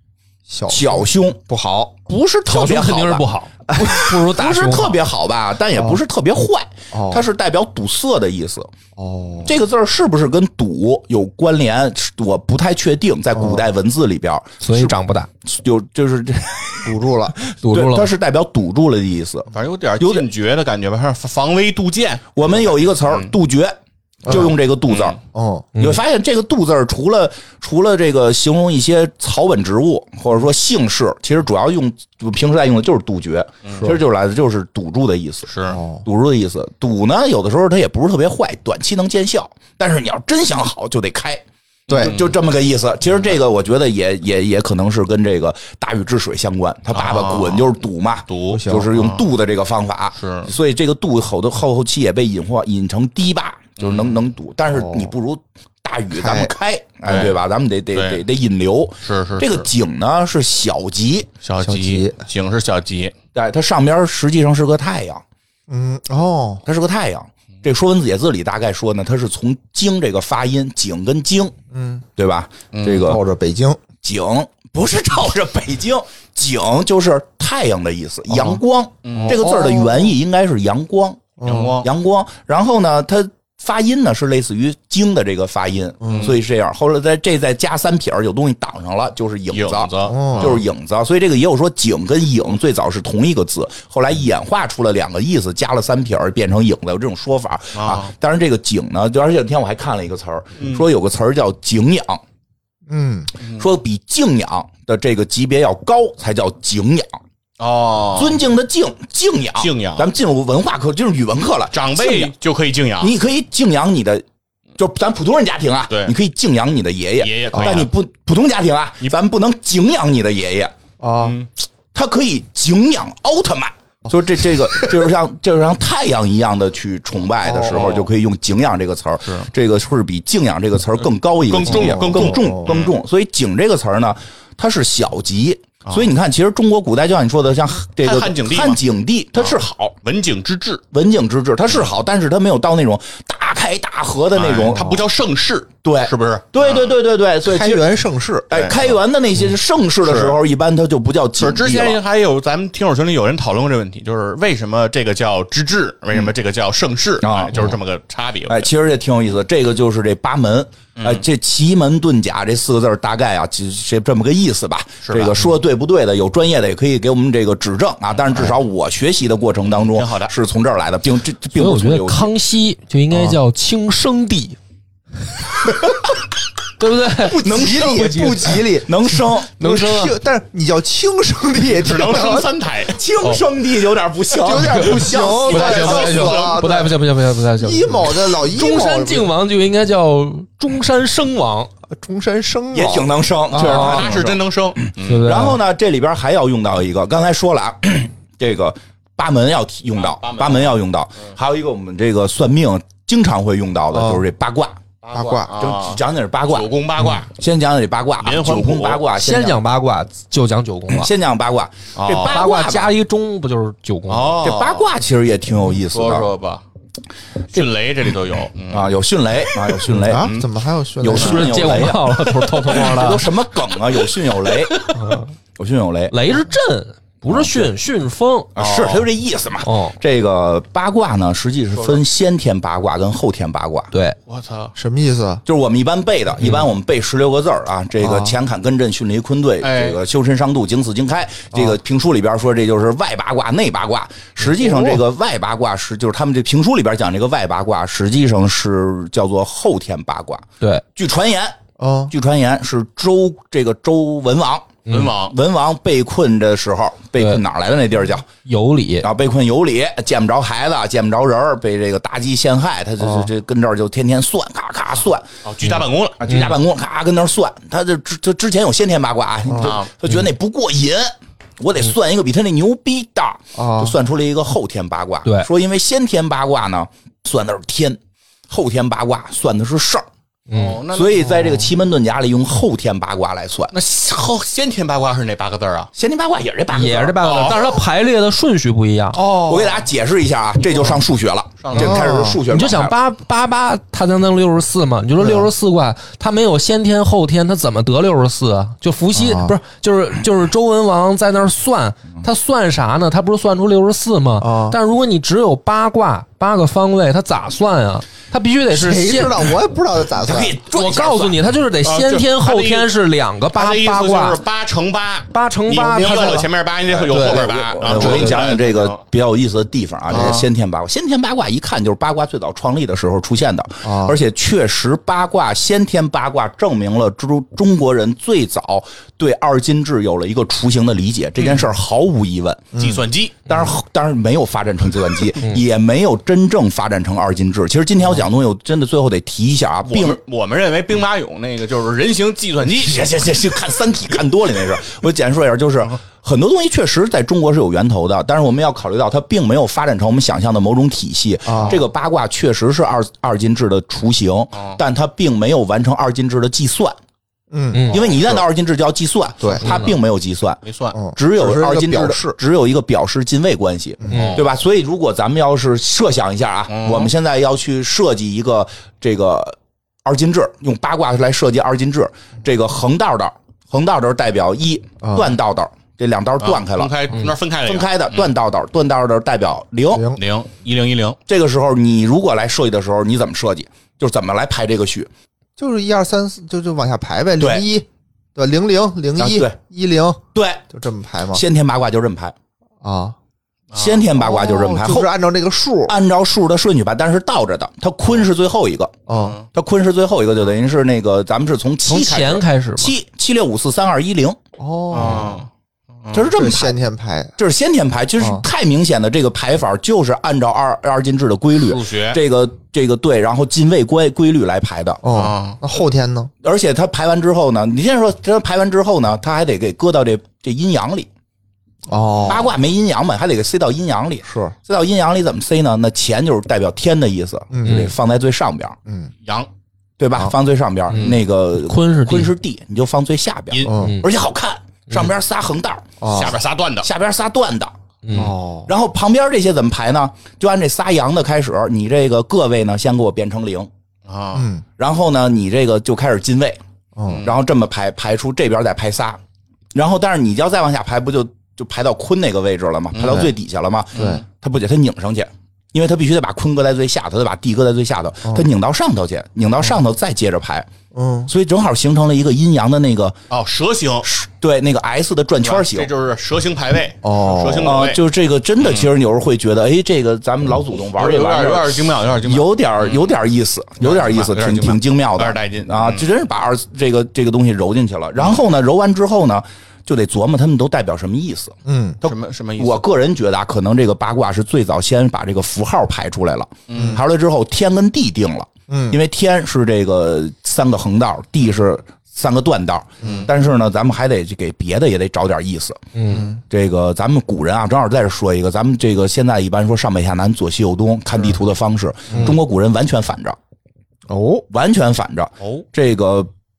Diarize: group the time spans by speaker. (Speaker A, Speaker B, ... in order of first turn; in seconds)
Speaker A: 0.5-2.0, 6.9-7.3, 9.0-9.6, 13.3-13.6, 16.8-17.4, 24.2-24.5, 25.3-25.7, 35.7-36.0, 41.9-42.2, 48.5-48.9, 54.7-55.1, 56.1-56.5, 61.6-62.2, 65.7-66.6, 71.7-72.1, 73.0-73.8, 79.2-80.1, 81.4-81.8, 86.0-86.3, 90.1-90.6, 102.9-103.3, 117.5-117.8, 121.0-121.4, 127.4-128.0, 131.7-132.7, 144.8-145.0, 147.4-148.8, 173.1-173.4, 177.5-182.6, 184.4-187.0, 187.6-189.3, 191.9-194.2, 203.9-204.2, 205.1-205.5, 219.9-222.0, 234.8-235.4, 238.0-238.4, 244.5-245.0, 251.8-252.1, 263.0-263.3, 269.5-269.8, 273.6-273.9, 281.2-281.7, 289.1-289.8, 291.8-292.4, 295.2-295.5, 299.1-299.6, 304.4-304.8, 308.7-310.6, 315.9-316.4, 320.1-320.4, 323.8-324.2, 332.7-333.5, 351.5-351.8, 357.5-358.1, 359.4-359.9, 360.9-362.4, 375.0-375.3, 379.9-380.2, 385.6-391.4, 392.8-393.2, 394.1-395.9, 399.1-399.4, 404.6-405.4, 406.3-407.4, 408.2-408.4, 415.0-416.3, 421.9-422.5, 424.3-424.6, 427.5-427.9, 428.9-429.1, 433.7-433.9, 436.0-436.4, 438.1-438.7, 444.3-444.6, 447.0-447.3, 454.0-454.2, 460.9-461.3, 467.0-467.8, 481.6-482.0, 486.8-487.0, 488.7-489.0, 493.0-493.3, 496.1-496.4, 502.1-502.4, 504.1-504.4
Speaker B: 0.7-1.4, 2.1-8.7, 9.4-17.0, 17.5-19.5, 20.0-20.3, 22.4-25.2, 25.8-35.5, 36.0-61.3, 63.3-65.2, 66.7-71.5, 72.2-73.2, 74.0-102.2, 103.5-107.2, 108.2-112.3, 113.0-114.2, 114.8-120.8, 121.9-140.0, 140.9-145.0, 145.8-147.9, 148.5-152.0, 157.2-157.7, 158.5-172.3, 177.2-179.6, 182.9-186.5, 192.7-204.8, 205.6-206.7, 207.3-209.6, 210.9-212.9, 214.4-216.3, 218.7-220.3, 221.0-226.2, 228.6-233.9, 235.5-251.6, 252.1-258.3, 259.0-265.3, 266.2-280.1, 280.9-283.7, 285.9-287.6, 289.3-293.0, 310.1-311.4, 316.9-332.7, 333.5-340.2, 342.8-357.0, 357.9-360.6, 361.1-380.1, 381.3-385.1, 387.4-387.7, 389.2-389.6, 390.3-390.6, 391.3-392.4, 393.7-395.1, 395.9-398.9, 399.5-404.4, 406.1-406.8, 407.4-415.0, 416.4-421.1, 422.2-428.8, 430.0-436.3, 436.8-437.7, 438.7-443.7, 444.8-446.6, 447.2-449.2, 449.7-460.7, 461.3-463.2, 464.0-465.9, 467.6-481.6, 482.1-495.9, 496.5-503.4, 504.5-506.3
Speaker C: 2.5-5.0, 14.6-15.3, 17.6-18.1, 25.8-26.0, 171.5-174.6, 176.8-178.5, 179.6-180.2, 184.4-191.7, 193.6-194.1, 195.0-195.6, 209.2-211.1, 212.3-214.4, 221.1-223.3, 224.9-225.3, 226.1-228.5, 229.6-230.0, 233.9-234.2, 254.9-255.1, 258.4-259.1, 266.3-266.5, 280.5-280.8, 286.7-289.2, 292.5-309.5, 310.7-314.4, 315.3-316.5, 317.1-318.4, 357.7-358.0, 359.7-359.9, 364.1-364.4, 401.9-402.9, 430.9-432.3, 433.8-434.1, 438.0-438.3, 495.9-496.3
Speaker D: 19.5-23.3, 24.9-25.2, 33.6-33.9, 35.5-35.8, 41.9-42.3, 46.9-47.7, 48.3-49.2, 50.2-50.5, 53.8-54.2, 57.1-57.4, 57.9-58.2, 59.0-59.7, 61.4-63.1, 72.7-73.1, 79.0-79.4, 81.4-81.9, 86.0-86.4, 89.5-90.6, 97.8-98.1, 100.6-100.9, 107.6-108.4, 109.6-110.1, 111.7-113.1, 115.9-116.2, 117.2-117.9, 121.2-121.5, 127.7-128.0, 131.4-132.9, 138.0-138.8, 139.4-140.8, 144.3-146.9, 148.5-148.8, 150.0-150.4, 151.4-158.7, 161.0-161.2, 165.0-165.4, 169.7-170.3, 181.7-183.4, 185.6-186.6, 193.6-195.4, 200.0-200.8, 205.0-207.3, 208.2-209.1, 212.0-212.4, 214.1-214.9, 215.9-216.6, 217.5-218.9, 220.1-220.5, 222.2-222.8, 228.6-229.1, 231.8-232.0, 234.3-234.8, 239.6-240.0, 254.9-255.3, 265.4-266.4, 269.6-269.9, 280.5-281.3, 283.7-285.9, 287.2-287.7, 291.6-292.1, 311.8-312.9, 313.5-319.0, 320.1-320.5, 331.4-331.6, 332.8-333.5, 339.9-343.2, 354.6-354.8, 358.0-358.4, 360.6-361.0, 364.1-364.5, 366.7-367.1, 376.4-378.3, 380.1-381.2, 393.7-394.1, 399.1-399.4, 404.9-405.5, 411.6-412.2, 415.1-415.6, 436.1-436.9, 444.1-444.5, 447.1-447.4, 452.9-453.3, 453.9-454.2, 463.3-464.1, 465.4-468.0, 468.6-468.9, 470.9-473.1, 473.8-476.1, 482.0-482.9, 486.7-487.0, 505.4-505.6